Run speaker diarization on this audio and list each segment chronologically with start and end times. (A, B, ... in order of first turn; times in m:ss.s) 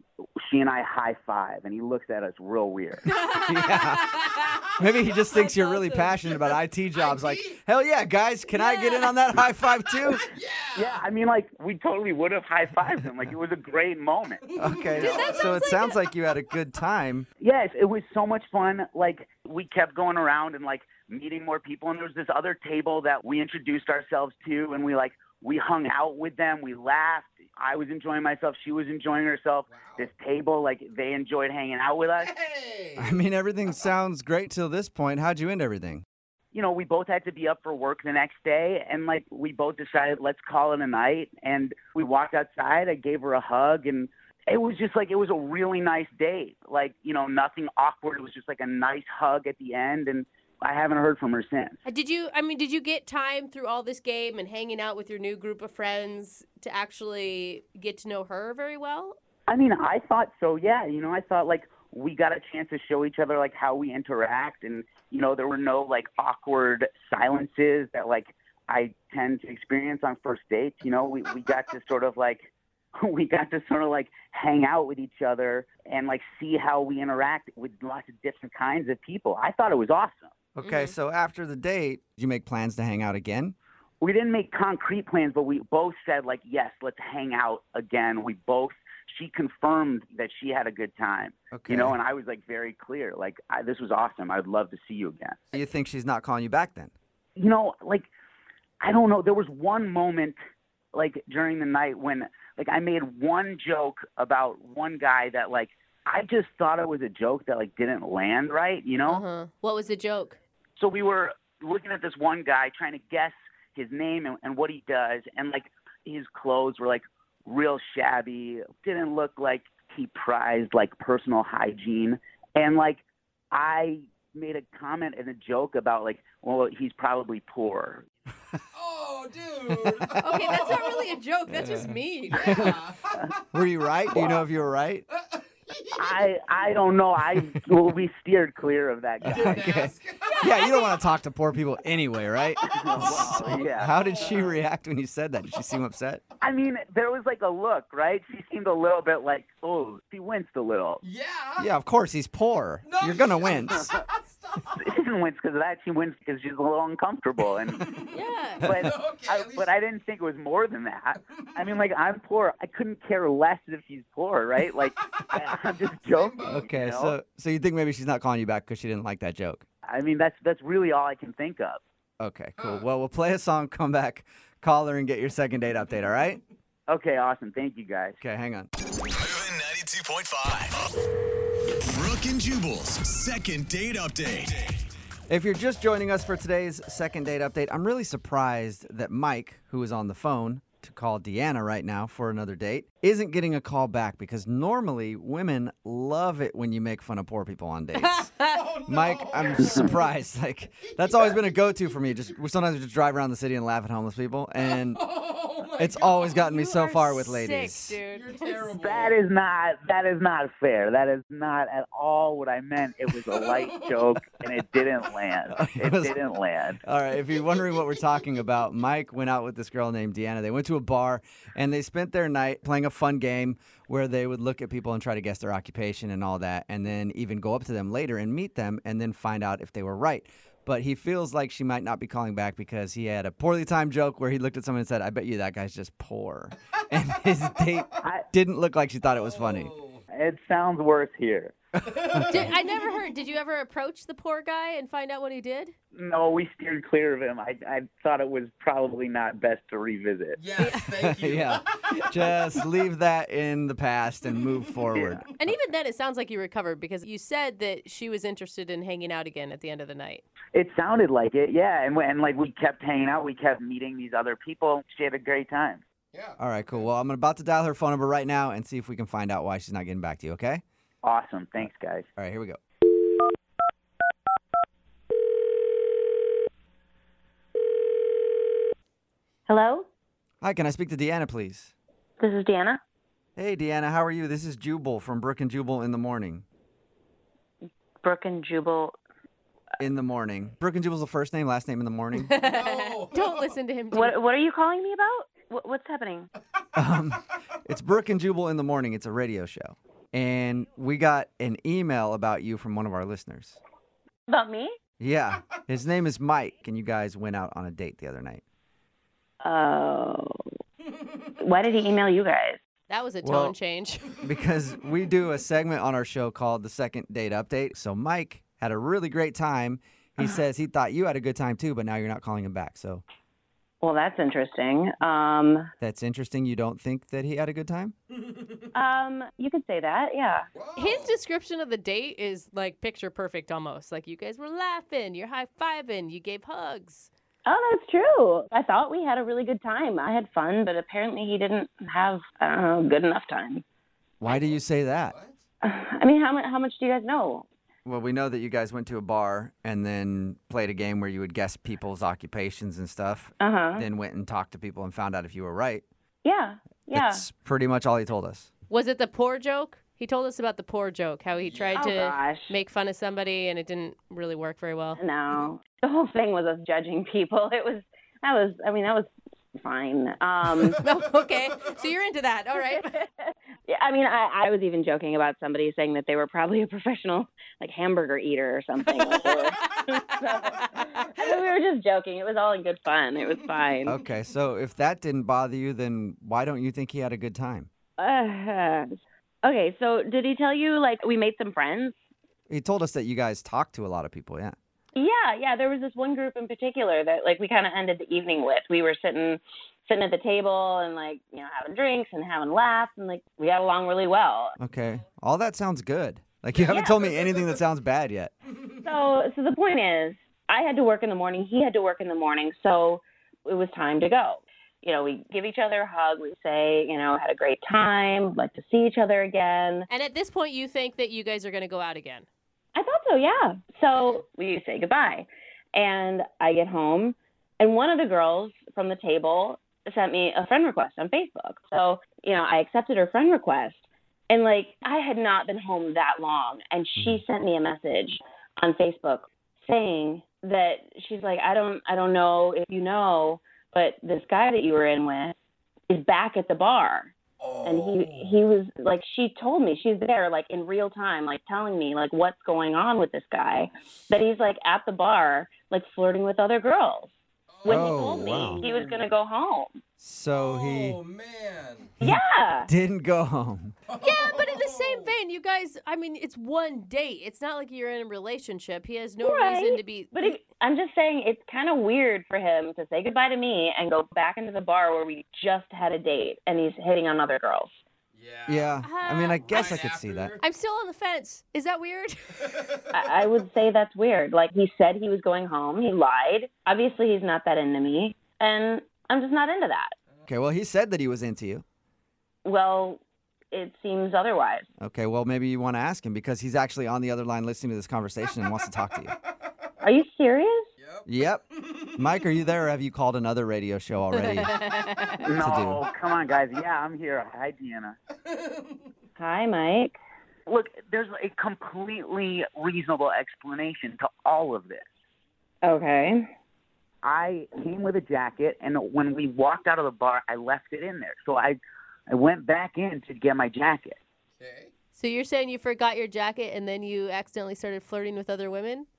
0:00.4-0:03.0 A
0:03.0-0:06.3 B
0:03.5-0:04.1 C
0:04.8-0:10.2 C
0:06.4-0:07.6 D
0:08.5-0:09.2 B
0:10.2-0:11.0 D
0:10.7-0:14.4 A
0:14.4-0:15.5 D
0:14.6-0:17.2 C
0:15.0-0:16.0 B
0:17.4-0:32.3 A
0:29.7-0:30.1 D
0:32.2-0:33.2 D
0:33.0-0:36.0 C
0:36.5-0:51.8 A
0:51.8-0:59.2 B
0:59.5-1:20.3 A
1:20.5-1:23.5 C
1:20.6-1:20.9 B
1:24.0-1:35.4 A
1:31.5-1:31.9 C
1:35.5-1:36.9 C
1:37.4-1:38.1 A
1:38.8-1:40.3 A
1:40.9-1:49.2 A
1:49.1-1:50.4 B
1:50.8-2:08.0 A
2:08.7-2:11.0 D
2:10.2-2:12.7 B
2:11.5-2:12.8 C
2:12.3-2:13.3 D
2:13.5-2:15.0 C
2:15.2-2:16.4 D
2:16.0-2:19.6 A
2:19.2-2:20.4 D
2:19.2-2:26.2 C
2:20.2-2:21.0 B
2:22.7-2:24.5 A
2:23.0-2:24.4 D
2:26.4-2:31.0 A
2:31.0-2:31.7 D
2:31.6-2:33.9 C
2:32.8-2:34.9 D
2:34.8-2:37.9 A
2:37.7-2:39.7 D
2:38.1-2:38.7 B
2:38.6-2:47.2 A
2:41.3-2:41.6 D
2:45.9-2:46.7 D
2:46.5-2:49.6 C
2:49.8-2:51.8 A
2:52.2-2:56.4 C
2:52.6-2:52.8 D
2:56.9-2:58.2 A
2:58.2-2:58.7 C
2:59.1-3:00.8 E
3:01.9-3:04.8 E
3:05.3-3:18.3 C
3:17.9-3:18.6 B
3:18.5-3:20.1 D
3:18.9-3:25.0 C
3:19.6-3:19.8 A
3:21.0-3:21.4 D
3:24.6-3:26.5 D
3:25.8-3:28.0 C
3:26.4-3:28.7 B
3:28.1-3:29.1 D
3:28.7-3:36.8 A
3:33.4-3:34.1 D
3:35.5-3:36.1 C
3:36.8-3:59.7 C
3:59.2-4:00.0 D
4:00.1-4:01.5 A
4:01.9-4:02.5 C
4:02.0-4:02.7 D
4:02.3-4:05.7 B
4:05.9-4:10.4 A
4:10.4-4:12.3 D
4:10.6-4:10.9 B
4:11.0-4:15.5 C
4:14.9-4:15.2 A
4:15.4-4:20.2 B
4:20.5-4:25.8 A
4:26.1-4:26.8 D
4:26.4-4:30.6 C
4:31.0-4:32.1 A
4:32.2-4:32.6 C
4:39.5-4:39.9 F
4:40.4-4:41.7 C
4:42.2-4:42.8 F
4:43.4-4:46.4 C
4:48.0-4:49.0 F
4:49.8-4:52.4 C
4:52.1-4:54.1 B
4:52.3-4:53.5 D
4:53.9-4:56.3 F
4:56.7-5:03.6 C
5:04.3-5:04.7 F
5:05.0-5:08.4 C
5:09.4-5:10.4 F
5:11.4-5:12.6 F
5:12.9-5:14.2 B
5:13.2-5:13.6 C
5:14.2-5:23.0 C
5:23.8-5:25.7 F
5:25.8-5:27.9 C
5:28.2-5:28.7 D
5:28.7-5:30.5 F
5:30.5-5:31.2 D
5:30.8-5:37.1 B
5:37.4-5:43.6 F
5:44.2-5:45.1 C
5:44.2-5:45.4 D
5:45.6-5:47.4 F
5:47.8-5:55.8 C
5:53.4-5:53.8 F
5:56.2-5:57.2 F
5:56.9-5:58.5 C
5:58.7-6:05.0 B
6:01.4-6:02.0 D
6:01.8-6:02.5 F
6:04.9-6:10.8 F
6:10.7-6:12.9 B
6:12.6-6:24.0 F
6:20.4-6:21.2 B
6:23.5-6:23.8 D
6:23.8-6:27.7 C
6:28.0-6:32.0 F
6:32.5-6:34.6 C
6:35.0-6:44.6 F
6:44.6-6:48.3 C
6:46.5-6:47.5 D
6:46.6-6:46.9 F
6:48.8-6:59.9 F
6:59.9-7:02.2 B
7:02.7-7:25.3 F
7:17.0-7:17.2 C
7:25.9-7:27.1 F
7:27.4-7:28.4 D
7:27.6-7:37.1 F
7:37.5-7:38.7 D
7:37.6-7:39.7 F
7:37.6-7:38.6 C
7:40.0-7:41.0 C
7:40.3-7:41.9 D
7:42.0-7:43.7 C
7:42.0-7:42.7 F
7:43.9-7:45.1 D
7:44.0-7:50.3 B
7:49.2-7:57.8 F
7:58.1-7:58.8 D
7:58.5-8:00.4 C
7:58.8-7:59.8 B
7:59.5-8:00.4 D
8:00.4-8:02.6 B
8:02.6-8:02.8 D
8:02.9-8:09.9 F
8:10.3-8:11.6 C
8:12.4-8:14.6 F
8:14.8-8:19.1 C
8:19.8-8:20.7 F
8:20.8-8:21.1 D
8:21.0-8:24.6 C
8:21.6-8:22.0 D
8:24.1-8:25.2 B
8:25.2-8:28.0 A
8:25.4-8:25.8 C
8:28.3-8:28.9 D
8:29.2-8:30.0 F
8:30.5-8:34.8 A
8:35.6-8:36.3 F
8:37.0-8:41.6 A
8:42.1-8:44.0 A
8:44.4-8:44.7 D
8:44.9-8:48.8 B